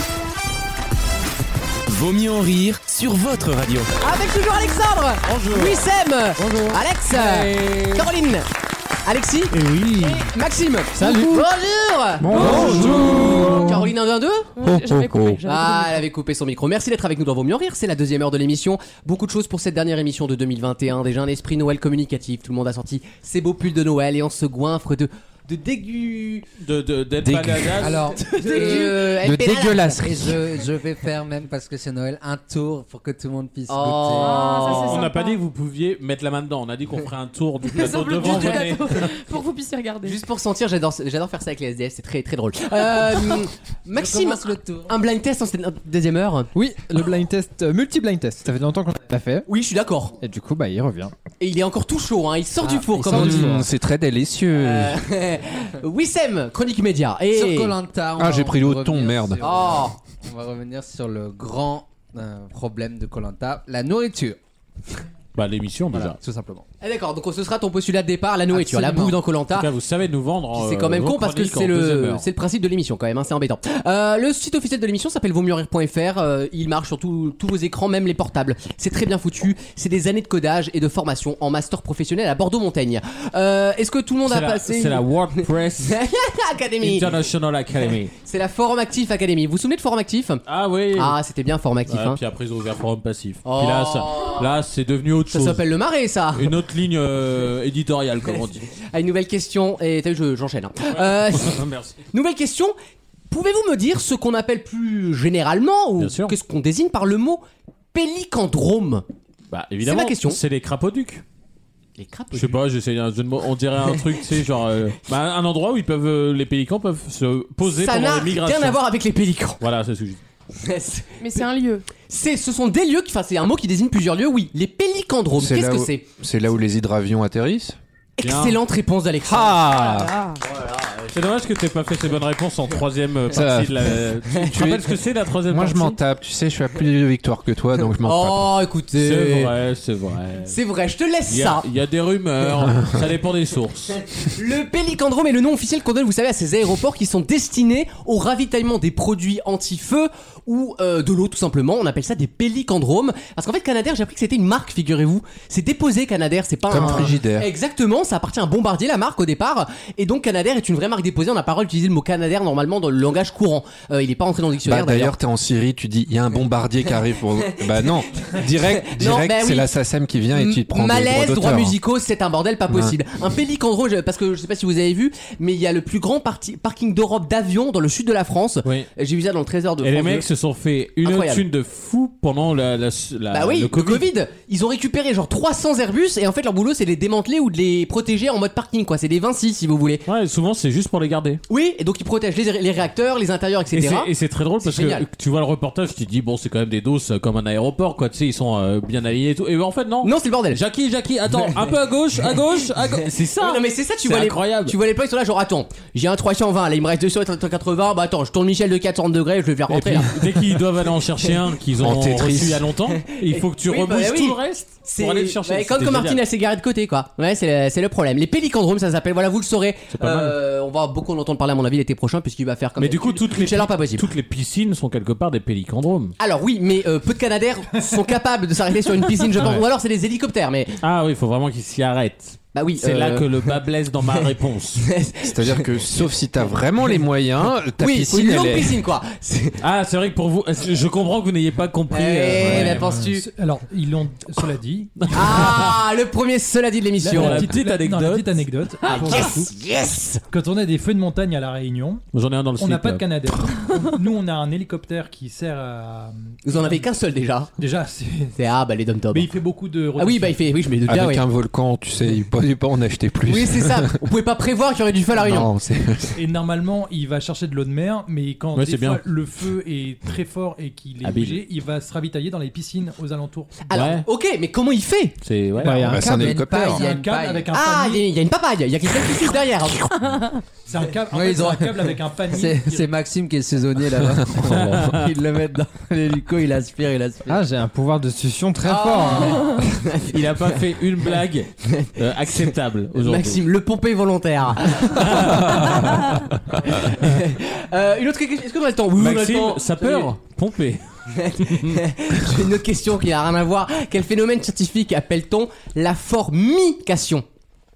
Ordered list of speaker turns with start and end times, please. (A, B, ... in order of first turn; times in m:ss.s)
0:01.9-0:03.9 A
0:04.0-0:08.5 B
0:05.2-0:08.1 C
0:09.0-0:14.5 B
0:09.5-0:10.3 C
0:12.2-0:13.8 D
0:12.3-0:13.7 C
0:14.6-0:16.0 E
0:14.6-0:15.4 D
0:15.4-0:26.5 B
0:26.6-0:28.2 C
0:27.2-0:28.0 D
0:27.8-0:29.2 F
0:28.2-0:30.0 B
0:28.9-0:30.4 D
0:30.0-0:34.4 F
0:33.7-0:35.0 B
0:34.1-0:35.4 E
0:34.7-0:39.1 C
0:37.6-0:40.2 E
0:38.2-0:38.6 B
0:40.0-0:46.5 B
0:43.9-0:44.9 F
0:46.5-0:49.5 G
0:49.5-0:50.2 B
0:50.2-0:51.1 G
0:51.4-0:53.6 B
0:52.6-0:53.6 F
0:52.9-0:53.6 G
0:53.1-0:55.0 D
0:54.5-0:57.7 B
0:57.3-1:04.4 F
0:58.2-0:59.8 D
0:59.4-1:00.0 B
1:05.3-1:06.2 C
1:05.9-1:06.6 F
1:06.8-1:09.7 B
1:08.5-1:09.2 F
1:09.5-1:12.3 C
1:10.5-1:27.2 B
1:24.2-1:25.9 C
1:26.8-1:28.1 C
1:28.2-1:30.4 B
1:30.5-1:31.2 C
1:30.9-1:32.2 B
1:31.8-1:35.6 C
1:33.4-1:34.5 B
1:35.3-1:36.5 B
1:36.3-1:38.6 C
1:38.7-1:42.7 B
1:40.9-1:42.0 C
1:43.3-1:47.4 B
1:46.0-1:46.4 C
1:47.9-1:49.0 B
1:49.5-1:51.2 C
1:49.8-1:50.4 B
1:52.0-1:52.6 B
1:52.3-1:58.8 C
1:57.6-1:59.6 B
1:59.6-2:00.2 C
2:00.6-2:01.1 B
2:01.2-2:01.8 E
2:02.0-2:06.0 B
2:05.3-2:07.8 D
2:08.2-2:09.6 B
2:08.2-2:08.6 C
2:09.2-2:10.1 D
2:09.6-2:10.4 E
2:10.4-2:11.2 B
2:11.1-2:16.0 C
2:13.3-2:18.6 D
2:17.9-2:19.5 B
2:18.9-2:20.6 C
2:20.5-2:21.6 B
2:21.3-2:24.0 C
2:24.3-2:45.1 B
2:36.7-2:37.5 D
2:44.6-2:51.8 D
2:48.8-2:49.7 B
2:50.3-3:00.2 B
2:52.7-2:53.0 D
2:59.8-3:04.0 C
3:01.0-3:01.4 B
3:03.3-3:10.0 B
3:10.0-3:11.4 C
3:11.5-3:14.1 B
3:13.7-3:24.8 C
3:14.6-3:15.0 B
3:20.0-3:20.6 B
3:23.3-3:30.1 B
3:29.7-3:36.2 C
3:31.8-3:32.7 D
3:32.9-3:44.0 B
3:39.9-3:40.4 C
3:42.8-3:46.1 C
3:46.2-3:50.8 B
3:49.4-3:49.6 C
3:50.8-3:54.8 C
3:52.5-3:53.5 B
3:54.8-3:56.0 B
3:55.2-3:58.8 D
3:57.8-3:59.6 B
3:59.6-4:02.9 C
4:01.9-4:03.2 B
4:02.5-4:05.3 H
4:05.0-4:05.8 C
4:05.1-4:07.5 B
4:07.0-4:09.5 H
4:07.0-4:09.3 C
4:08.9-4:10.2 B
4:10.3-4:12.0 H
4:12.1-4:13.3 C
4:12.6-4:16.8 H
4:16.4-4:17.5 B
4:17.6-4:18.4 H
4:18.4-4:19.3 B
4:19.1-4:20.4 H
4:20.0-4:21.2 B
4:20.9-4:24.0 D
4:23.3-4:25.5 B
4:25.2-4:26.2 D
4:26.2-4:33.6 H
4:28.5-4:29.0 C
4:31.0-4:31.4 C
4:33.7-4:35.2 B
4:33.7-4:34.0 C
4:35.2-4:35.9 C
4:35.6-4:36.1 G
4:35.6-4:38.1 H
4:35.8-4:36.8 D
4:36.0-4:37.5 F
4:37.5-4:40.0 B
4:40.7-4:42.9 H
4:41.1-4:41.8 F
4:42.3-4:47.4 F
4:44.1-4:44.9 D
4:44.4-4:45.0 C
4:47.3-4:49.7 G
4:48.6-4:50.1 B
4:50.1-4:53.4 C
4:53.0-5:00.1 B
4:54.9-4:55.8 C
4:58.9-5:00.8 C
5:01.1-5:07.2 B